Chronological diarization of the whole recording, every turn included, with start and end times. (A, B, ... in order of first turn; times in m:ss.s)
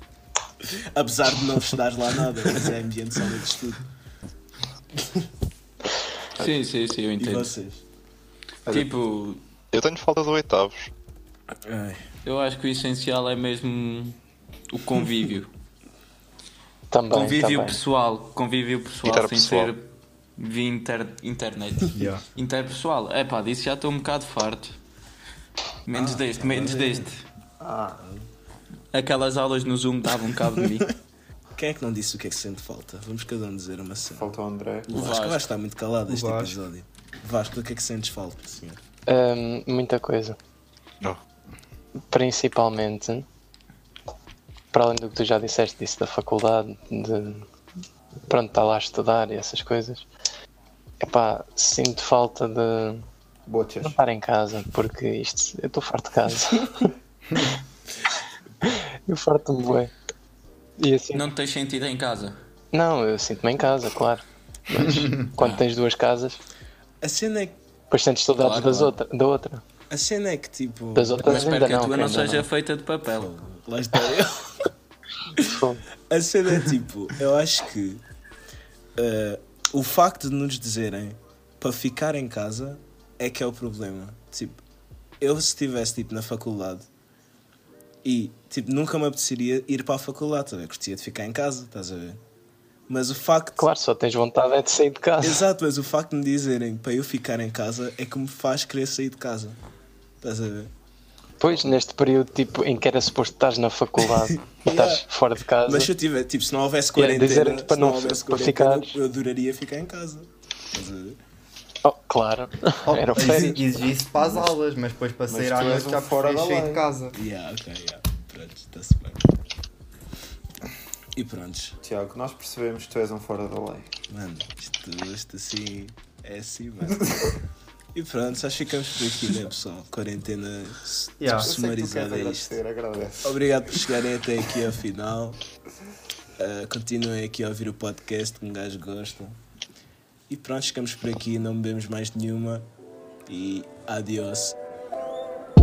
0:00.6-0:03.8 A
0:06.4-0:07.5 B
0:07.2-0:07.8 A
0:08.7-0:09.4 B
0:09.7-0:10.9 C
0:11.6-0:12.0 A
0:12.2-0:14.2 B
0:14.7-0:15.5 B
0:16.9-0:17.8 D
0:17.1-0:24.7 B
0:19.0-0:19.7 C
0:25.8-0:27.2 B
0:25.9-0:27.1 A
0:27.6-0:28.0 E
0:28.0-0:28.3 A
0:28.9-0:30.9 B
0:31.5-0:34.4 A
0:34.1-0:34.9 E
0:34.9-0:38.8 A
0:34.9-0:35.5 B
0:36.1-0:36.5 F
0:39.1-0:40.4 D
0:42.1-0:43.2 D
0:44.7-0:47.4 D
0:48.3-0:50.0 D
0:51.0-0:53.0 D
0:53.5-0:54.0 E
0:53.8-0:56.9 D
0:58.6-0:59.9 D
1:00.8-1:01.3 D
1:01.1-1:02.4 B
1:02.7-1:06.4 D
1:07.0-1:07.6 A
1:07.9-1:09.6 D
1:08.4-1:08.9 B
1:09.9-1:11.5 A
1:10.9-1:12.5 D
1:11.2-1:13.3 B
1:13.1-1:14.7 A
1:15.4-1:15.8 D
1:16.1-1:18.0 A
1:19.0-1:24.6 A
1:25.2-1:26.9 A
1:28.0-1:32.2 A
1:32.9-1:33.7 A
1:33.6-1:35.4 D
1:35.2-1:39.6 A
1:40.2-1:40.7 A
1:41.4-1:45.9 D
1:44.2-1:45.0 A
1:45.6-1:51.2 A
1:46.9-1:49.0 D
1:51.8-1:53.6 D
1:52.9-1:57.1 F
1:55.3-1:56.9 E
1:57.1-1:59.2 A
2:01.1-2:01.8 A
2:01.8-2:03.9 E
2:04.1-2:07.0 A
2:07.9-2:12.6 A
2:11.2-2:11.5 F
2:11.4-2:13.4 E
2:13.2-2:15.4 A
2:16.4-2:19.4 A
2:20.3-2:22.7 A
2:23.3-2:24.6 A